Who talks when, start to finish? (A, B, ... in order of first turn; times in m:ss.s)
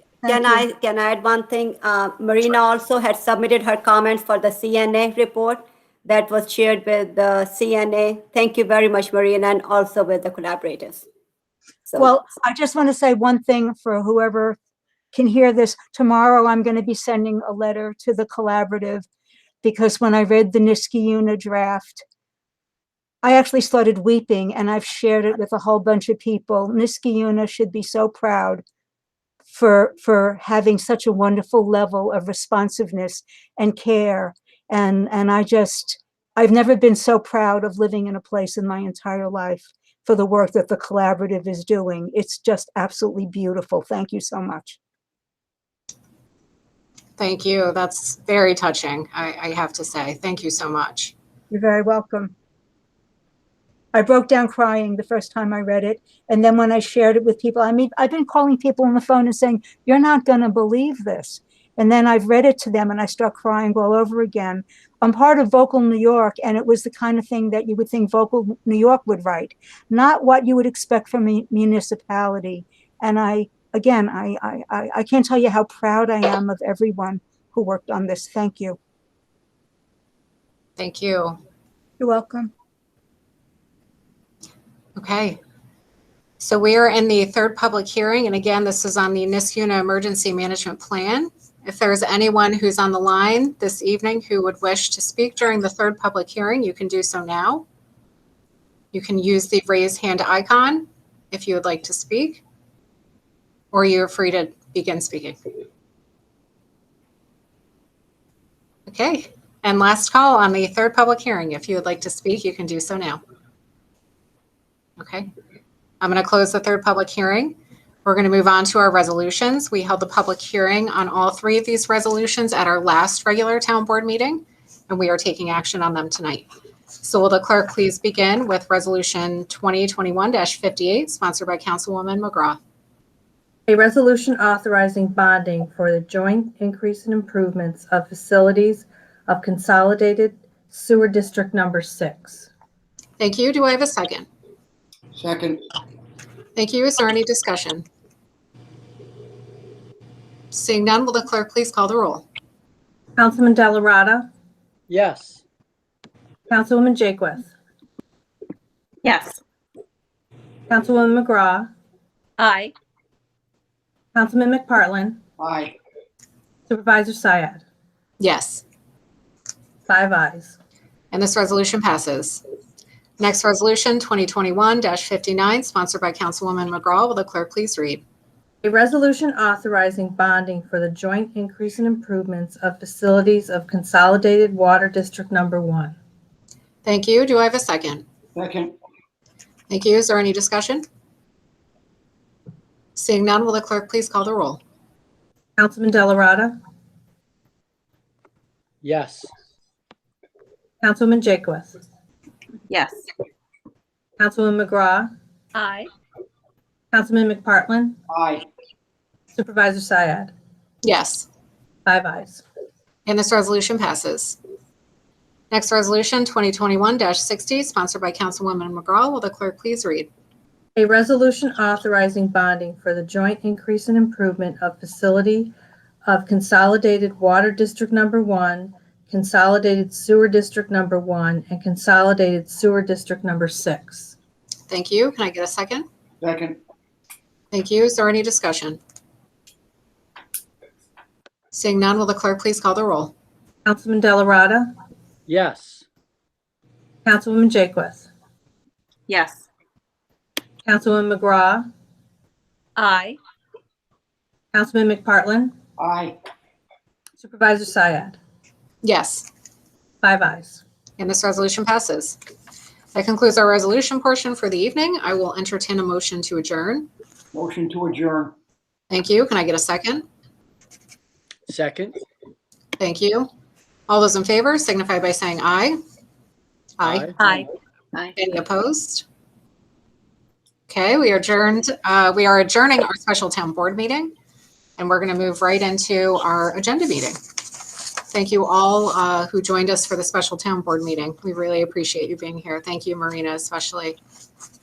0:00.2-0:00.7 A
0:00.2-0:11.0 B
0:11.9-0:12.1 B
0:12.0-0:14.6 A
0:15.1-0:19.1 A
0:19.6-0:22.0 A
0:23.2-0:28.6 A
0:29.4-0:44.8 A
0:47.2-0:51.1 C
0:51.5-0:52.3 A
0:53.9-1:18.8 A
1:20.8-1:21.4 C
1:22.0-1:22.5 A
1:25.0-1:25.4 C
1:26.4-1:37.6 C
1:38.9-1:42.4 C
1:43.7-1:45.4 C
1:48.9-1:53.2 C
1:55.0-1:55.3 C
1:56.0-2:06.5 C
2:07.0-2:12.6 C
2:13.7-2:22.5 D
2:23.2-2:24.3 C
2:25.1-2:25.6 E
2:26.5-2:27.8 C
2:30.5-2:32.2 C
2:33.2-2:34.3 D
2:34.9-2:35.4 F
2:36.5-2:37.5 D
2:39.0-2:39.4 G
2:40.7-2:41.7 D
2:42.4-2:42.7 G
2:44.1-2:45.2 D
2:45.4-2:45.8 E
2:46.7-2:47.6 D
2:48.2-2:48.6 C
2:49.9-2:50.6 D
2:51.1-2:52.4 C
2:53.2-2:58.0 C
2:58.6-3:06.0 D
3:06.8-3:08.0 C
3:08.4-3:08.7 E
3:09.7-3:10.8 C
3:13.0-3:14.6 C
3:15.6-3:16.5 D
3:18.8-3:19.3 F
3:20.8-3:21.7 D
3:22.7-3:23.0 G
3:24.2-3:25.1 D
3:25.5-3:25.9 G
3:26.9-3:28.0 D
3:28.1-3:28.4 E
3:29.4-3:30.3 D
3:30.8-3:31.3 C
3:31.8-3:32.4 D
3:33.1-3:34.4 C
3:35.5-3:40.1 C
3:40.8-3:45.5 D
3:46.0-3:54.1 D
3:54.7-3:55.8 C
3:56.2-3:56.6 E
3:57.5-3:58.8 C
4:01.5-4:03.1 C
4:03.6-4:04.7 D
4:05.3-4:05.8 F
4:07.0-4:08.1 D
4:09.1-4:09.4 G
4:10.6-4:11.6 D
4:12.8-4:13.2 G
4:14.5-4:15.5 D
4:15.8-4:16.2 E
4:17.2-4:18.2 D
4:18.8-4:19.3 C
4:20.0-4:20.6 D
4:21.0-4:22.2 C
4:22.9-4:26.9 C
4:27.3-4:28.3 E
4:28.9-4:30.0 C
4:31.5-4:32.0 F
4:32.8-4:33.3 C
4:33.9-4:35.8 C
4:36.8-4:37.1 C
4:36.8-4:37.2 F
4:37.2-4:38.1 G
4:38.2-4:39.0 C
4:40.7-4:44.1 C
4:44.8-4:54.0 C